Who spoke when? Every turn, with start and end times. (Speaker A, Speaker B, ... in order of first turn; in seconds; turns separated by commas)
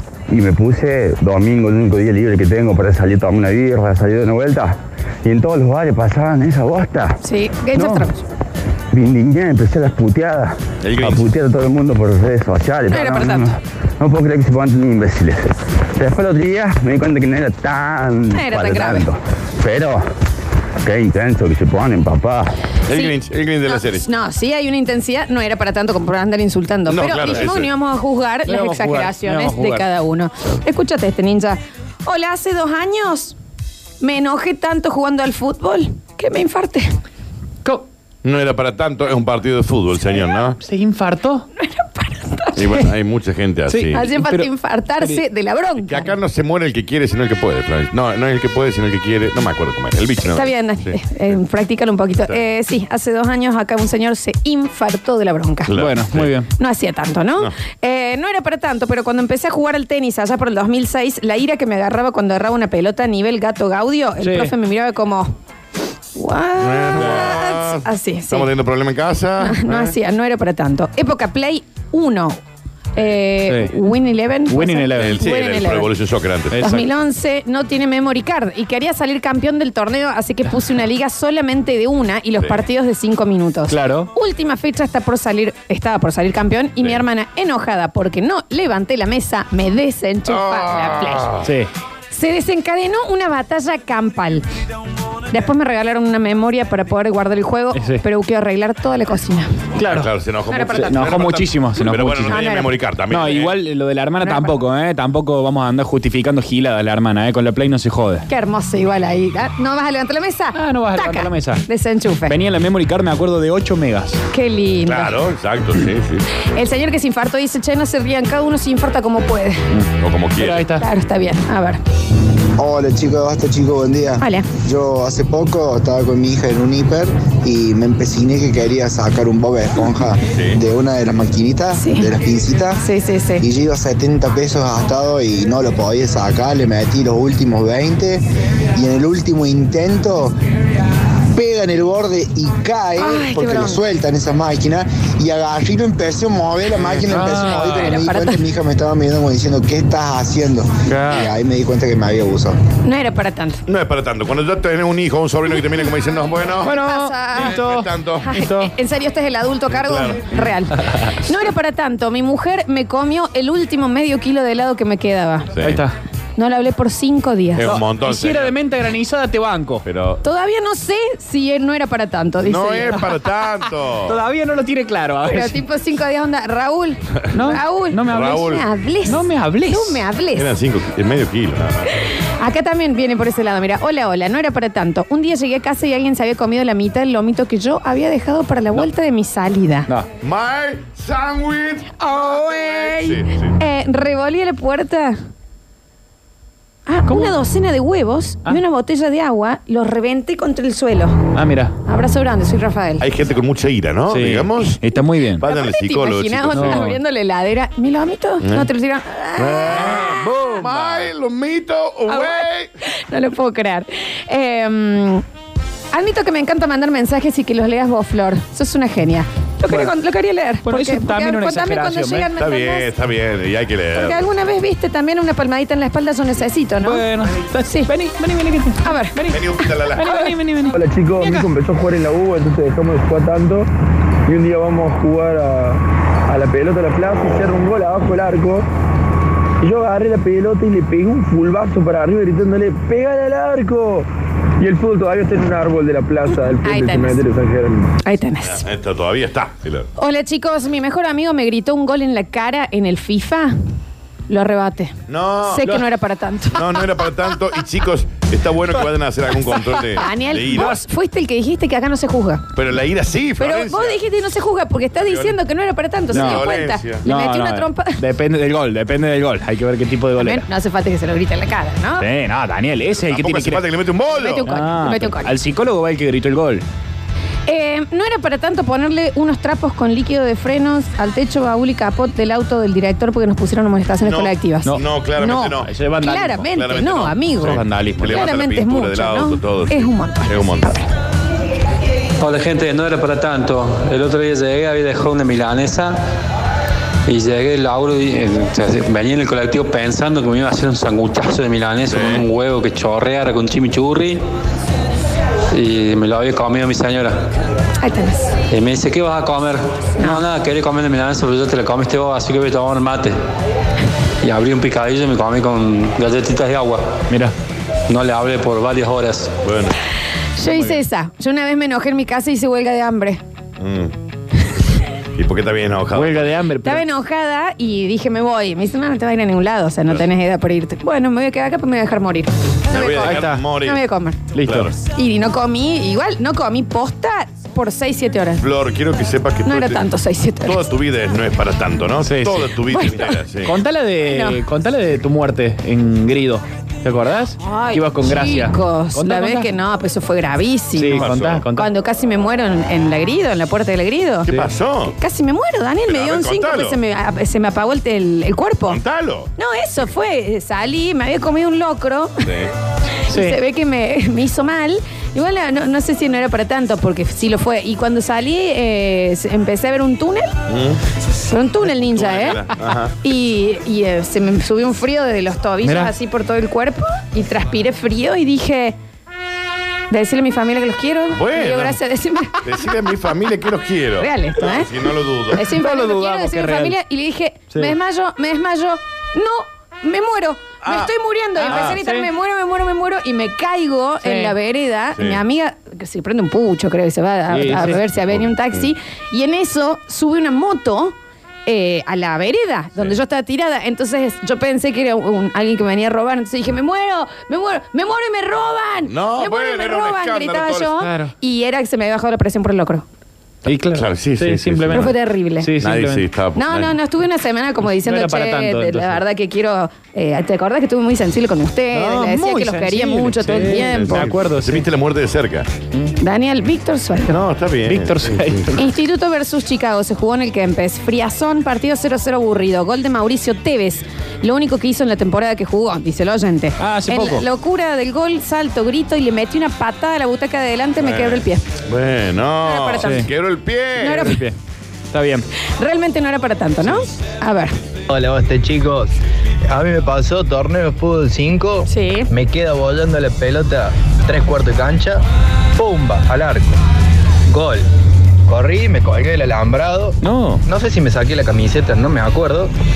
Speaker A: 0.3-7.2, Speaker B: 7.2-8.2, Speaker A: 7.7-8.1, Speaker A: 8.9-20.0, Speaker C: 10.8-11.2, Speaker B: 12.9-13.6, Speaker B: 18.3-19.1, Speaker A: 20.8-22.5, Speaker C: 22.9-24.1, Speaker B: 22.9-33.4, Speaker C: 26.9-27.7, Speaker D: 28.5-29.9, Speaker B: 34.0-36.9, Speaker C: 38.2-40.5, Speaker D: 40.6-41.5, Speaker B: 41.6-42.6, Speaker C: 42.6-43.9, Speaker D: 43.7-45.2, Speaker B: 43.9-46.1, Speaker C: 45.8-51.0, Speaker B: 50.2-55.7, Speaker C: 55.7-56.3, Speaker D: 55.7-56.5, Speaker B: 56.6-65.3, Speaker D: 64.2-64.5, Speaker B: 66.2-68.5, Speaker C: 66.6-69.8, Speaker D: 67.0-67.3, Speaker B: 69.4-72.4, Speaker B: 73.0-76.0, Speaker D: 73.5-73.7, Speaker D: 74.5-75.3, Speaker C: 75.0-76.7, Speaker D: 76.5-76.9, Speaker B: 76.5-91.4, Speaker D: 83.7-84.1, Speaker C: 90.3-90.7, Speaker D: 91.4-91.7, Speaker B: 92.1-94.5, Speaker B: 95.3-99.5, Speaker D: 97.8-98.0, Speaker D: 99.8-100.1, Speaker C: 99.9-103.5, Speaker B: 100.5-101.2, Speaker D: 100.7-102.4, Speaker B: 102.3-103.4, Speaker D: 103.1-108.3, Speaker B: 104.2-104.5, Speaker B: 108.3-112.4, Speaker D: 110.5-111.7, Speaker D: 112.3-114.2, Speaker B: 114.3-115.2, Speaker C: 114.9-116.2, Speaker B: 116.5-119.6, Speaker D: 119.7-120.9, Speaker C: 120.0-120.5, Speaker B: 120.8-121.8, Speaker E: 122.6-132.8, Speaker B: 124.2-124.5, Speaker B: 131.8-132.1, Speaker B: 132.8-133.4, Speaker E: 133.4-138.2, Speaker E: 138.7-140.3, Speaker E: 141.3-152.6, Speaker B: 143.0-143.8, Speaker D: 147.1-147.9, Speaker B: 147.4-148.4, Speaker D: 150.9-151.3, Speaker B: 152.8-153.6, Speaker C: 153.7-156.7, Speaker D: 156.6-158.7, Speaker B: 156.7-157.6, Speaker C: 157.6-158.2, Speaker B: 158.2-165.5, Speaker C: 159.9-160.2, Speaker D: 165.6-165.9, Speaker B: 166.4-167.7, Speaker C: 167.6-168.6, Speaker D: 167.6-169.8, Speaker C: 169.8-170.2, Speaker B: 170.2-173.0, Speaker C: 172.5-174.1, Speaker D: 172.8-175.6, Speaker B: 175.2-180.5, Speaker D: 177.3-178.5, Speaker D: 179.1-180.1, Speaker C: 180.4-181.9, Speaker B: 182.4-189.9, Speaker C: 190.2-193.6, Speaker B: 192.0-195.2, Speaker B: 196.9-201.2, Speaker D: 197.1-197.4, Speaker D: 201.3-201.8, Speaker B: 201.9-203.1, Speaker C: 203.0-204.8, Speaker D: 204.1-205.4, Speaker B: 204.9-210.7, Speaker C: 205.4-206.8, Speaker D: 206.5-206.9, Speaker C: 208.4-208.7, Speaker C: 209.4-212.7, Speaker D: 209.7-211.1, Speaker B: 212.1-215.2, Speaker B: 215.9-222.9, Speaker D: 219.7-219.9, Speaker D: 220.6-222.3, Speaker C: 222.4-224.2, Speaker B: 223.9-227.1, Speaker D: 226.8-229.4, Speaker B: 228.8-230.4, Speaker C: 229.3-230.1, Speaker D: 229.9-230.8, Speaker F: 230.7-233.7, Speaker B: 231.2-231.5, Speaker F: 234.3-238.7, Speaker F: 239.6-244.1, Speaker F: 244.6-247.9, Speaker B: 246.3-247.2, Speaker B: 248.0-248.7, Speaker C: 248.6-249.9, Speaker B: 250.0-253.5, Speaker B: 254.3-254.9, Speaker C: 255.1-255.6, Speaker B: 255.5-257.4, Speaker C: 256.6-260.7, Speaker B: 259.5-262.4, Speaker D: 260.5-260.8, Speaker C: 262.6-264.0, Speaker B: 263.4-268.0, Speaker C: 265.0-265.4, Speaker D: 266.1-270.4, Speaker C: 266.1-267.0, Speaker B: 270.2-272.1, Speaker D: 272.0-273.6, Speaker C: 273.1-274.5, Speaker B: 274.1-275.3, Speaker D: 274.5-276.6, Speaker B: 277.5-290.8, Speaker C: 284.1-285.7, Speaker D: 285.6-286.5, Speaker C: 286.5-290.7, Speaker D: 287.4-288.3, Speaker G: 292.2-296.0, Speaker G: 297.1-304.2, Speaker C: 301.9-302.2, Speaker G: 305.5-307.2, Speaker B: 307.8-308.4, Speaker G: 308.5-313.2, Speaker B: 310.0-310.2, Speaker G: 314.2-316.9, Speaker G: 317.9-319.3, Speaker C: 319.4-319.8, Speaker B: 320.4-323.2, Speaker D: 320.5-320.8, Speaker C: 323.6-323.9, Speaker C: 325.2-326.2, Speaker D: 325.9-326.8, Speaker B: 326.6-334.2, Speaker C: 332.8-333.7, Speaker D: 333.0-333.5, Speaker D: 334.3-334.8, Speaker C: 334.4-334.7, Speaker B: 334.9-338.4, Speaker C: 338.4-339.8, Speaker B: 339.4-340.7, Speaker C: 340.5-343.5, Speaker D: 342.0-342.9, Speaker B: 342.7-343.2, Speaker D: 343.4-349.5, Speaker B: 344.1-344.4, Speaker B: 347.4-354.3, Speaker D: 350.8-351.7, Speaker C: 351.0-351.4, Speaker C: 354.4-354.9, Speaker B: 354.9-358.8, Speaker C: 355.9-356.8, Speaker C: 358.7-359.3, Speaker B: 359.4-362.2, Speaker C: 362.2-362.5, Speaker B: 363.1-370.3, Speaker D: 363.1-363.4, Speaker C: 370.5-370.8, Speaker B: 371.2-372.4, Speaker C: 372.0-372.9, Speaker B: 373.0-378.8, Speaker D: 375.6-375.9, Speaker B: 379.9-382.9, Speaker C: 381.1-381.8, Speaker C: 382.5-385.4, Speaker B: 384.0-384.7, Speaker B: 385.3-412.9, Speaker D: 385.5-386.8, Speaker D: 391.4-392.1, Speaker D: 394.0-394.4, Speaker D: 397.3-397.8, Speaker C: 408.9-410.7, Speaker D: 410.8-411.1, Speaker D: 413.4-416.1, Speaker C: 413.8-414.9, Speaker B: 414.7-415.5, Speaker C: 415.7-416.4, Speaker B: 416.4-424.1, Speaker D: 417.6-419.0, Speaker D: 421.7-424.7, Speaker C: 423.7-425.5, Speaker B: 426.0-427.2, Speaker C: 427.1-427.9, Speaker D: 427.7-428.6, Speaker B: 428.5-441.5, Speaker D: 436.6-437.2, Speaker C: 440.8-444.0, Speaker B: 442.4-443.1, Speaker D: 442.8-443.1, Speaker B: 443.8-444.2, Speaker D: 444.0-444.4, Speaker D: 444.9-445.3, Speaker B: 445.6-447.5, Speaker H: 447.9-448.9, Speaker H: 449.5-455.0, Speaker B: 451.7-452.1, Speaker H: 455.6-456.6, Speaker H: 457.3-457.7, Speaker H: 458.3-462.5, Speaker D: 460.0-460.4